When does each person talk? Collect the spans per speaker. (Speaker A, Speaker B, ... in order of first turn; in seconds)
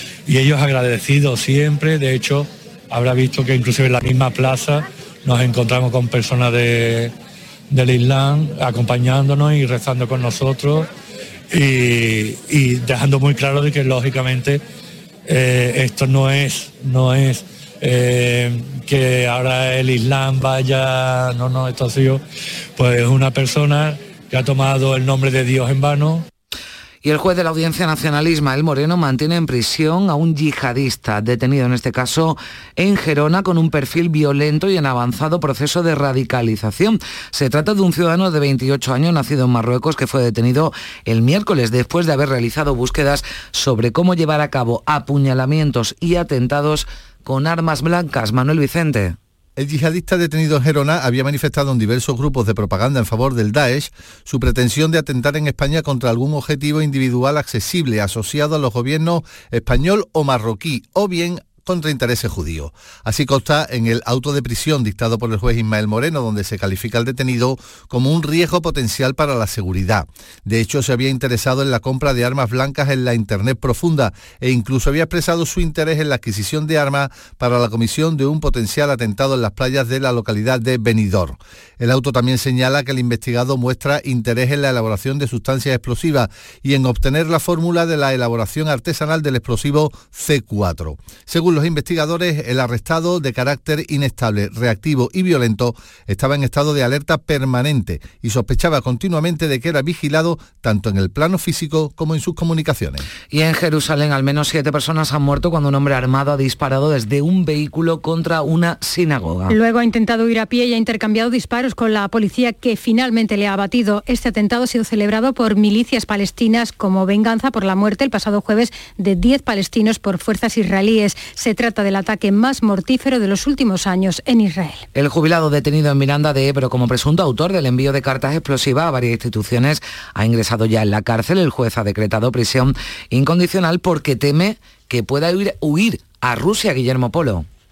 Speaker A: 0.2-7.1, 7.7-10.9, 11.5-14.6, 15.3-22.2, 22.8-26.2
Speaker B: 27.0-49.2, 103.3-109.5, 124.9-137.4
Speaker C: 49.6-103.0
Speaker D: 109.5-124.8